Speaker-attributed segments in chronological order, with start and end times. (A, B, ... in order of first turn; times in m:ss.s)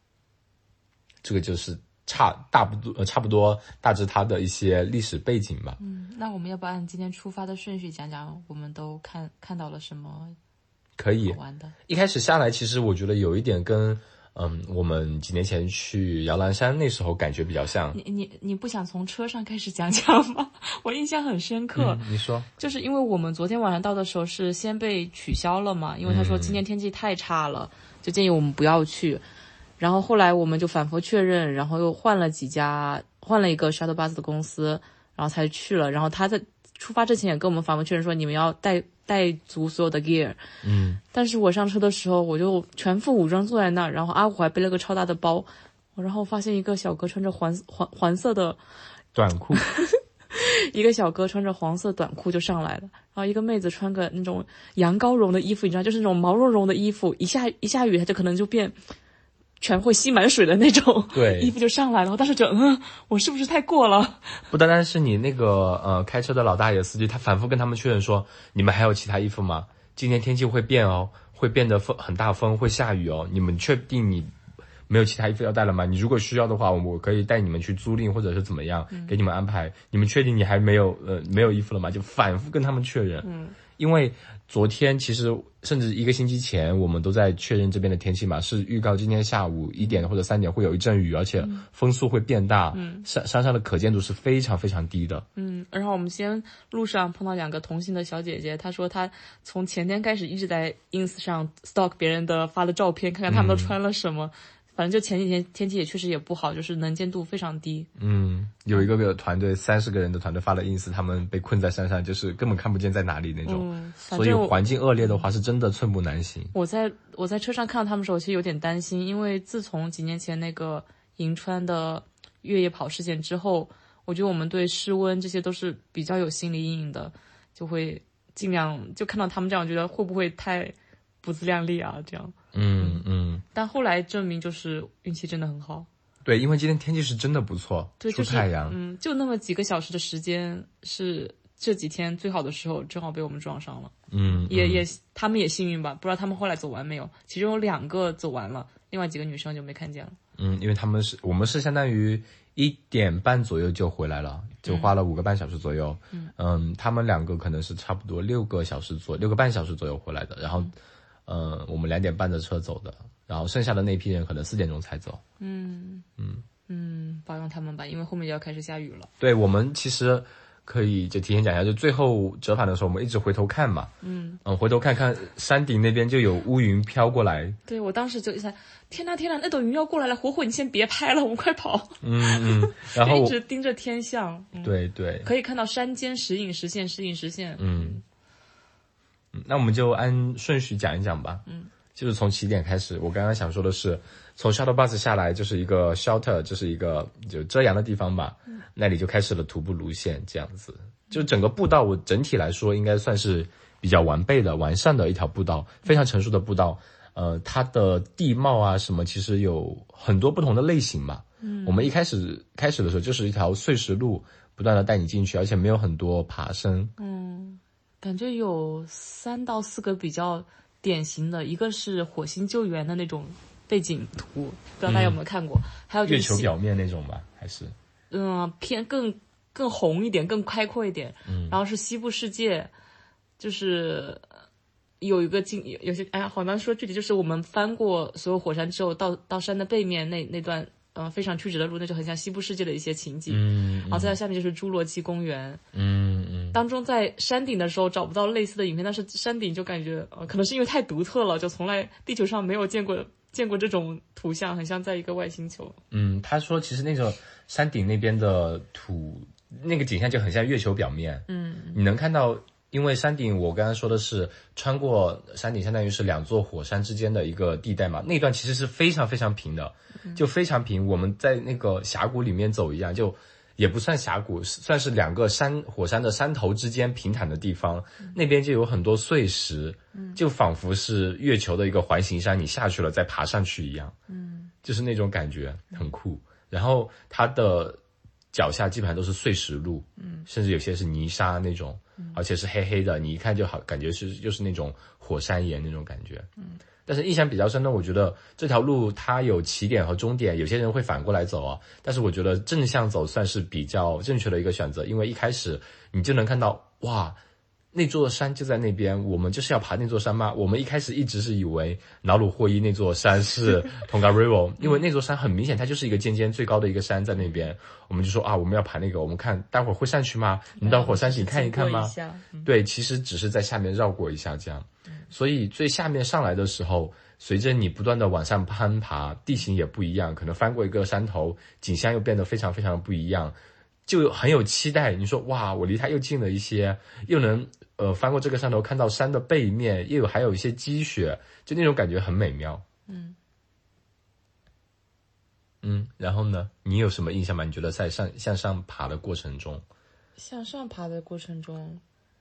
0:01.2-0:05.8 A
0:05.8-0:10.4 B
0:11.0-0:18.0 A
0:11.2-0:11.7 B
0:17.9-0:22.0 B
0:21.8-0:22.5 A
0:22.6-0:29.2 B
0:26.0-0:26.6 A
0:29.8-0:40.4 B
0:40.6-0:41.0 A
0:41.1-0:48.6 B
0:49.1-0:49.6 A
0:49.5-0:58.8 B
0:59.6-1:04.4 B
1:01.1-1:01.5 A
1:04.5-1:14.3 A
1:14.9-1:35.2 A
1:18.9-1:19.2 B
1:23.2-1:23.6 B
1:29.8-1:30.0 B
1:31.4-1:31.6 B
1:32.7-1:33.1 B
1:35.4-1:47.9 B
1:43.3-1:43.7 A
1:48.0-1:56.5 A
1:53.4-1:55.2 B
1:56.5-2:15.9 B
2:12.5-2:13.4 A
2:16.2-2:18.8 A
2:18.0-2:30.2 B
2:24.1-2:24.8 A
2:30.4-2:40.7 A
2:34.6-2:34.9 B
2:41.3-2:45.2 A
2:45.4-2:46.0 B
2:46.7-2:49.1 B
2:49.2-2:53.9 A
2:54.0-2:54.4 B
2:54.4-2:57.6 A
2:57.6-3:08.0 B
3:02.0-3:03.4 A
3:04.6-3:05.3 A
3:07.6-3:08.0 A
3:09.3-3:36.9 A
3:31.4-3:31.9 B
3:37.0-3:46.5 B
3:44.8-3:45.2 A
3:46.0-3:47.7 A
3:48.1-3:52.7 B
3:51.2-3:51.6 A
3:53.4-3:54.2 B
3:55.0-4:05.6 B
4:03.3-4:04.2 A
4:05.7-4:06.6 A
4:06.5-4:15.8 B
4:15.9-4:43.9 A
4:21.3-4:21.8 B
4:39.9-4:40.2 B
4:44.1-4:44.5 B
4:44.6-4:47.8 A
4:48.3-4:56.3 A
4:50.0-4:50.3 B
4:56.8-5:07.2 A
5:07.7-5:33.3 A
5:17.2-5:17.5 B
5:20.6-5:22.5 B
5:33.8-5:42.6 A
5:42.9-5:43.2 B
5:45.6-5:49.6 A
5:50.2-5:51.8 B